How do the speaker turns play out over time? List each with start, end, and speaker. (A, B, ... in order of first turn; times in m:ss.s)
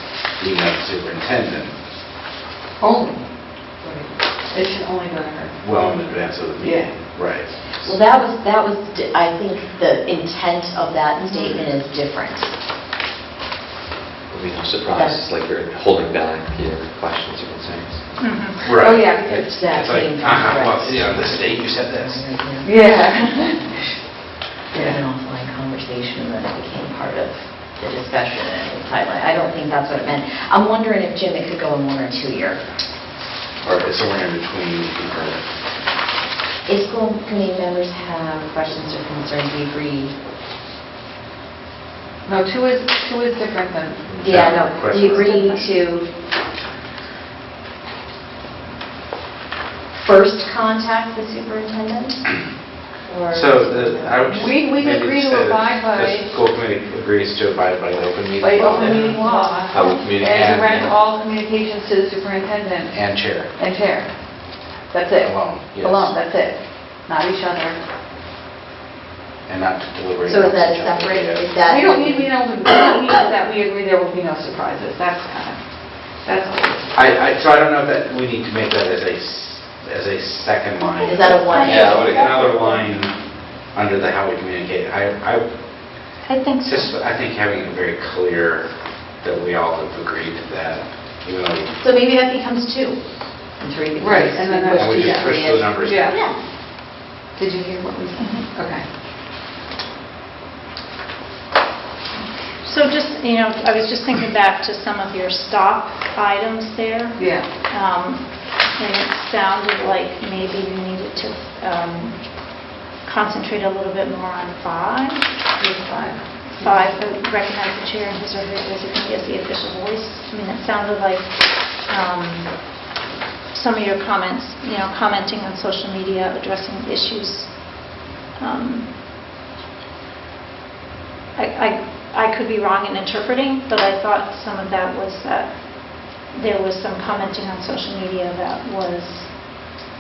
0:00.4-0:01.7 A
0:02.8-0:05.6 B
0:05.6-0:07.5 A
0:06.6-0:06.9 B
0:07.8-0:12.5 C
0:14.3-0:18.1 D
0:14.9-0:15.2 C
0:18.2-0:18.6 E
0:18.6-0:22.2 A
0:18.7-0:19.5 B
0:19.2-0:23.8 C
0:22.6-0:23.6 B
0:24.7-0:32.6 C
0:24.7-0:25.0 B
0:33.6-0:35.4 A
0:36.7-0:40.1 C
0:42.2-0:44.2 B
0:44.1-0:44.5 D
0:44.2-0:46.1 C
0:44.2-0:45.4 A
0:44.9-0:45.7 B
0:49.9-0:52.3 C
0:53.1-0:53.6 B
0:53.3-0:59.2 A
0:53.5-0:54.4 C
0:54.3-0:56.3 B
0:58.4-1:07.8 B
0:59.0-1:00.0 E
0:59.7-1:00.9 A
0:59.7-1:00.9 D
1:02.9-1:03.5 A
1:05.2-1:06.1 A
1:09.5-1:11.4 A
1:10.3-1:12.4 C
1:11.6-1:16.9 B
1:16.9-1:23.2 A
1:21.0-1:22.3 C
1:21.1-1:22.8 E
1:21.6-1:22.1 D
1:23.7-1:25.5 A
1:26.2-1:26.9 E
1:26.6-1:31.7 A
1:31.8-1:33.0 C
1:33.6-1:36.3 C
1:34.0-1:36.2 B
1:34.7-1:36.1 A
1:37.3-1:38.8 B
1:38.2-1:38.5 E
1:42.2-1:55.3 E
1:47.2-1:47.5 B
1:55.6-1:56.9 B
1:56.6-2:02.8 E
2:03.5-2:08.9 E
2:11.4-2:19.3 E